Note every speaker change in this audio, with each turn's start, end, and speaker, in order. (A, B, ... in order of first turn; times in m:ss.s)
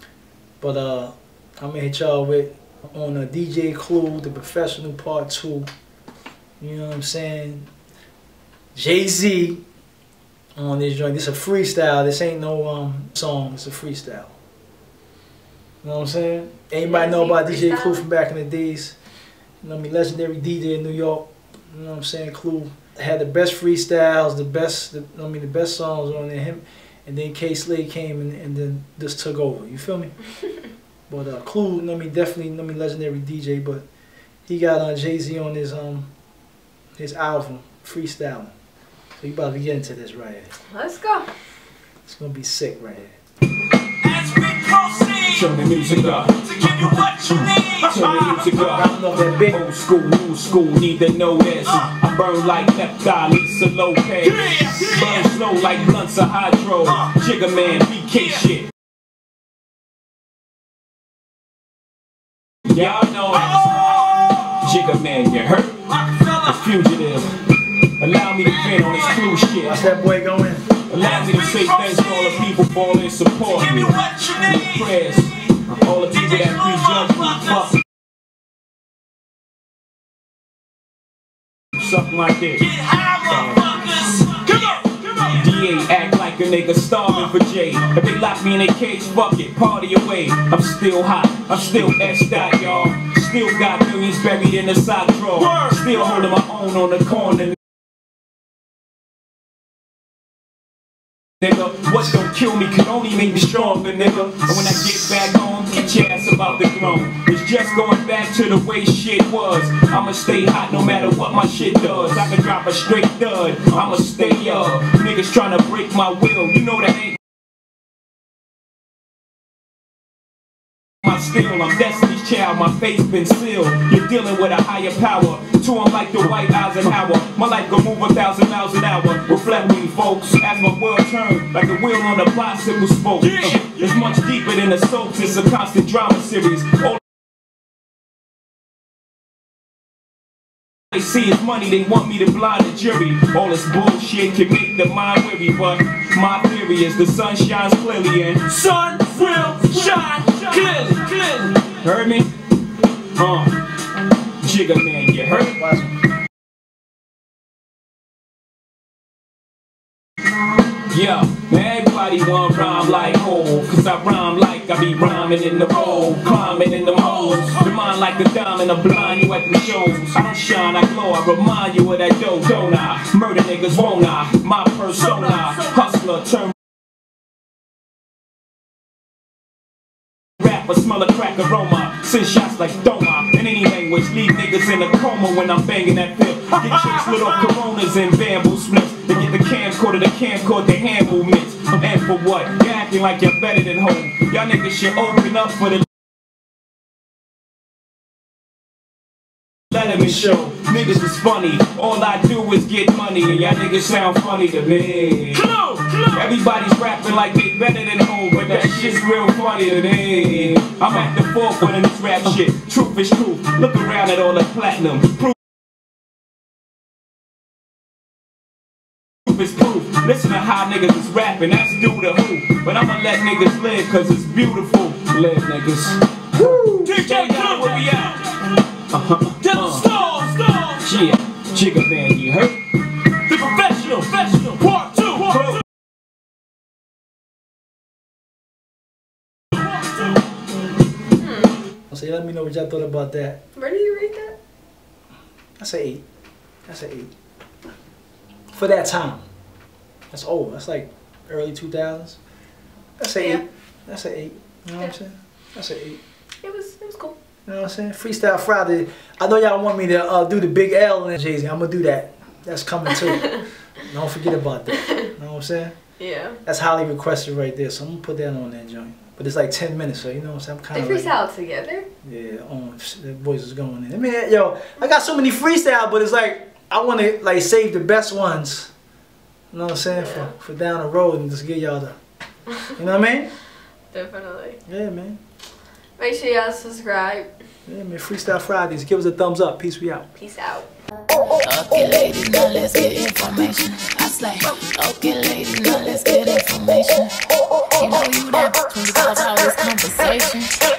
0:00.6-0:05.7 A
0:06.6-0:07.7 A
0:08.7-0:09.6 A
0:10.6-0:14.3 A
0:15.8-0:19.0 A
0:16.8-0:18.0 B
0:19.6-0:30.1 A
0:31.1-0:33.8 A
0:34.5-0:36.1 A
0:37.0-0:38.5 A
0:39.2-0:40.5 A
0:40.7-0:41.3 B
0:42.0-0:43.2 A
0:44.0-0:48.6 C
0:45.3-0:46.4 D
0:47.3-0:48.9 D
0:48.7-0:49.6 A
0:49.4-0:58.7 D
0:54.2-0:55.3 C
1:02.6-1:07.4 D
1:02.9-1:04.5 C
1:06.0-1:06.4 C
1:08.0-1:09.8 D
1:08.5-1:09.3 C
1:09.6-1:10.7 A
1:10.9-1:17.8 D
1:11.0-1:12.4 C
1:13.5-1:14.9 C
1:16.1-1:17.7 C
1:21.8-1:22.7 D
1:22.6-1:25.4 C
1:23.3-1:23.8 D
1:25.3-1:37.6 D
1:32.1-1:32.4 C
1:35.4-1:36.3 C
1:41.4-1:57.2 D
2:01.0-2:17.0 D
2:13.2-2:14.2 C
2:20.9-2:28.4 D
2:28.5-2:31.8 C
2:29.6-2:30.0 D
2:31.8-2:32.3 D
2:33.2-2:33.6 D
2:34.4-2:35.6 D
2:35.3-2:36.0 A
2:40.8-2:56.5 D
2:45.9-2:47.8 C
2:55.0-2:55.9 C
3:00.4-3:15.8 D
3:19.7-3:25.5 D
3:19.7-3:20.8 A
3:25.3-3:26.3 C
3:26.1-3:35.3 D
3:28.4-3:28.9 C
3:29.9-3:30.4 C
3:39.2-3:49.9 D
3:46.3-3:46.9 A
3:46.8-3:48.3 C
3:49.4-3:51.1 C
3:50.8-3:52.6 D
3:53.3-3:55.6 C
3:55.2-3:55.6 D
4:01.2-4:01.6 B
4:01.9-4:03.4 A
4:03.5-4:04.4 B
4:05.6-4:06.0 A
4:06.7-4:07.1 A
4:08.5-4:09.2 A
4:10.1-4:12.2 A
4:13.0-4:16.0 A
4:13.2-4:13.4 B
4:16.4-4:17.2 B
4:17.4-4:25.7 A
4:26.0-4:26.4 B
4:26.4-4:31.2 A
4:30.7-4:31.9 B
4:32.0-4:38.7 A
4:39.5-4:41.9 A
4:39.9-4:40.3 B
4:42.6-4:43.3 A
4:43.9-4:44.6 B
4:44.7-4:45.2 A
4:46.0-4:47.3 B
4:47.6-4:50.1 A
4:50.2-4:50.7 B
4:51.4-4:57.1 E
4:57.8-5:00.5 E